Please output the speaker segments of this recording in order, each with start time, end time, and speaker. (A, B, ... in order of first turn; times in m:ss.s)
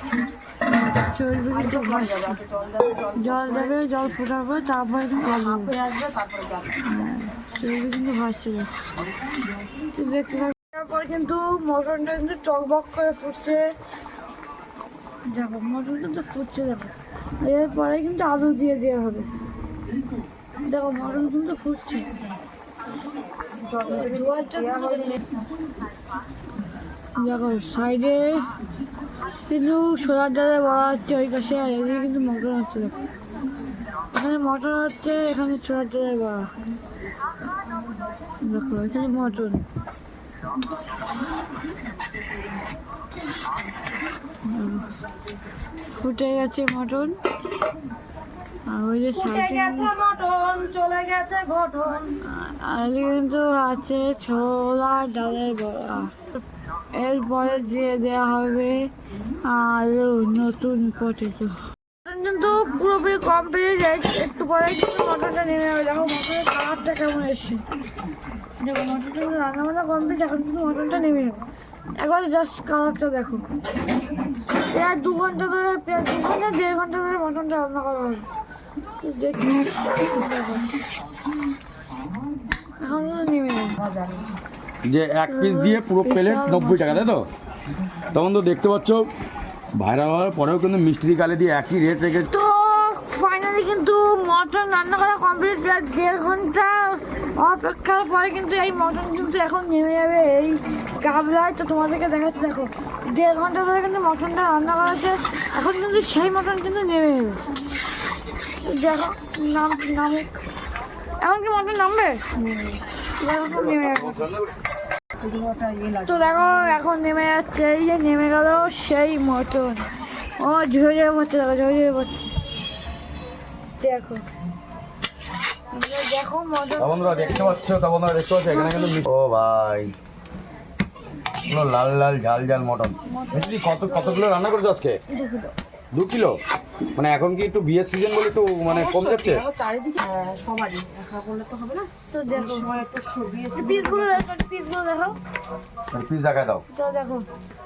0:00.6-0:02.4 A
0:01.5-0:03.8 B
0:03.1-0:05.8 A
0:05.2-0:06.7 B
0:06.8-0:08.7 A
0:09.9-0:13.7 A
0:15.3-0:19.3 A
0:20.6-0:22.1 A
0:23.6-0:25.2 B
0:23.8-0:25.2 A
0:27.2-0:28.5 A
0:29.5-0:33.0 A
0:34.1-0:36.5 A
0:38.4-0:39.7 A
0:44.4-0:44.9 A
0:46.0-0:47.2 A
0:48.7-0:49.9 A
0:49.2-0:52.2 B
0:52.2-0:56.2 A
0:56.9-0:58.9 A
0:59.4-1:07.6 A
1:08.6-1:11.4 A
1:12.0-1:13.4 A
1:14.6-1:18.3 A
1:19.0-1:20.8 A
1:22.8-1:23.8 A
1:23.8-1:24.2 B
1:24.9-1:27.3 C
1:25.3-1:27.2 A
1:28.1-1:29.1 C
1:29.8-1:32.3 C
1:32.3-1:47.4 A
1:48.6-1:50.4 A
1:51.2-1:52.2 A
1:52.4-1:52.8 B
1:53.2-1:54.2 A
1:53.5-1:54.5 C
1:55.2-1:56.8 B
1:56.0-2:02.3 A
2:03.8-2:04.2 A
2:05.7-2:07.6 A
2:06.8-2:09.9 C
2:08.5-2:08.9 A
2:11.5-2:15.0 C
2:13.1-2:14.4 A
2:15.2-2:15.5 A
2:15.9-2:16.4 C
2:17.0-2:19.4 C
2:18.7-2:24.3 B
2:22.1-2:22.8 A
2:23.5-2:25.2 A
2:25.9-2:26.6 C
2:26.7-2:27.3 A